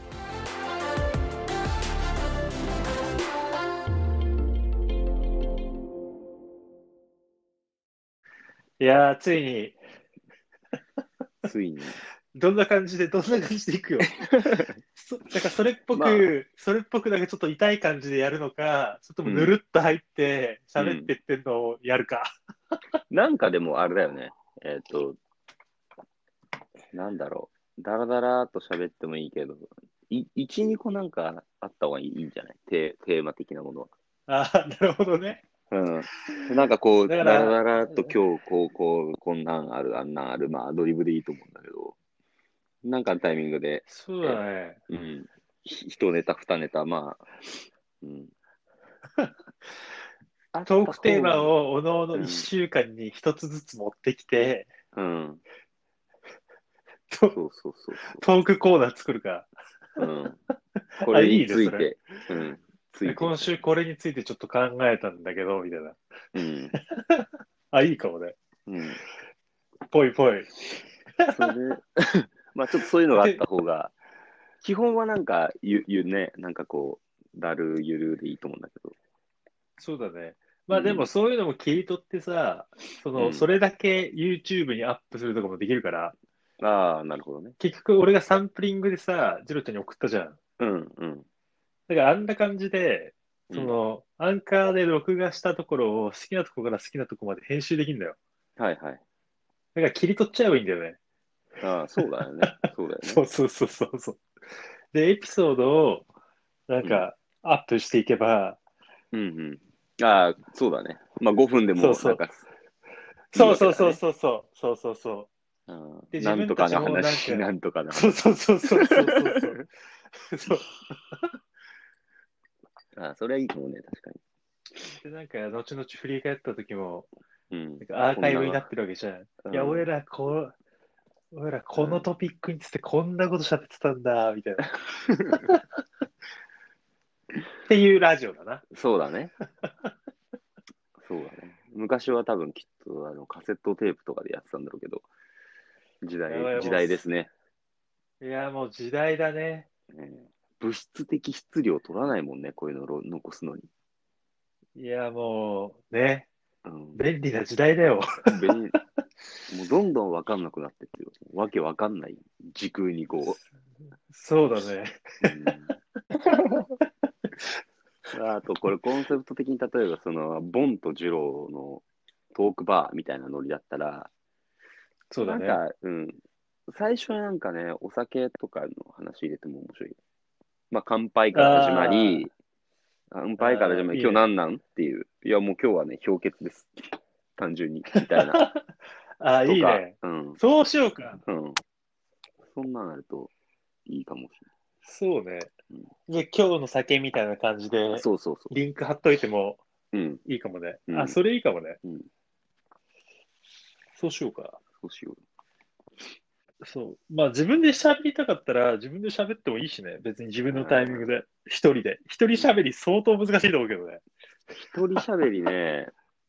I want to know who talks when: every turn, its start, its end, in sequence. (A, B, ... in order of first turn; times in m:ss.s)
0:08.8-0:09.8 A
0:11.4-0:12.0 B
0:12.4-0:22.3 A
0:14.2-0:14.8 B
0:15.9-0:16.3 B
0:19.2-0:19.5 B
0:20.8-0:21.1 B
0:23.1-0:25.2 B
0:26.9-0:33.9 B
0:34.3-0:35.4 A
0:35.7-0:42.0 B
0:37.1-0:38.1 A
0:42.8-0:48.3 B
0:43.9-0:44.8 A
0:50.5-0:51.5 B
0:50.7-0:54.7 A
0:52.1-0:52.5 B
0:54.9-0:55.4 B
0:57.1-0:57.4 A
0:57.3-0:58.2 B
0:58.2-0:59.5 A
1:00.0-1:00.4 B
1:01.0-1:01.9 A
1:01.0-1:03.5 B
1:03.0-1:06.0 A
1:06.4-1:06.8 B
1:06.9-1:08.4 A
1:08.7-1:09.0 B
1:09.9-1:11.5 A
1:11.3-1:13.9 B
1:13.2-1:13.4 A
1:14.6-1:19.0 B
1:19.8-1:26.2 A
1:20.7-1:21.1 B
1:23.2-1:23.5 B
1:26.6-1:27.6 B
1:27.6-1:30.4 A
1:30.6-1:31.3 B
1:31.9-1:38.2 A
1:33.5-1:33.8 B
1:38.6-1:39.0 B
1:39.8-1:41.0 A
1:41.6-1:43.2 B
1:42.5-1:44.2 A
1:44.9-1:46.1 A
1:46.7-1:48.6 A
1:46.8-1:47.1 B
1:49.1-1:52.5 B
1:51.8-1:52.2 A
1:53.3-1:55.3 A
1:53.3-1:54.0 B
1:55.7-1:58.2 B
1:56.1-2:01.2 A
1:58.7-1:59.5 B
2:03.0-2:04.2 B
2:04.8-2:07.1 A
2:07.5-2:08.7 B
2:07.8-2:10.5 A
2:09.4-2:09.8 B
2:11.3-2:14.8 A
2:11.8-2:12.1 B
2:14.9-2:15.5 B
2:15.3-2:15.6 A
2:17.6-2:18.7 A
2:18.7-2:19.3 B
2:21.0-2:25.1 B
2:26.0-2:27.3 B
2:26.3-2:27.0 A
2:28.2-2:29.7 A
2:29.9-2:33.7 B
2:34.8-2:36.3 A
2:36.6-2:37.0 B
2:37.0-2:38.3 A
2:38.3-2:38.8 B
2:39.5-2:43.4 B
2:44.1-2:45.5 A
2:45.2-2:45.7 B
2:48.1-2:54.1 B
2:55.1-2:55.6 A
2:55.2-3:00.0 B
3:00.7-3:02.3 B
3:01.3-3:02.3 A
3:03.1-3:08.4 B
3:03.4-3:04.3 A
3:08.0-3:08.6 A
3:09.2-3:11.2 A
3:09.5-3:10.4 B
3:11.2-3:11.6 B
3:12.5-3:13.3 B
3:13.9-3:14.5 B
3:14.8-3:15.5 A
3:16.1-3:19.6 A
3:17.9-3:18.5 B
3:19.9-3:20.2 B
3:20.2-3:21.8 A
3:20.9-3:21.2 B
3:24.0-3:24.6 A
3:24.8-3:25.2 B
3:26.6-3:34.0 A
3:30.5-3:31.1 B
3:34.5-3:35.9 B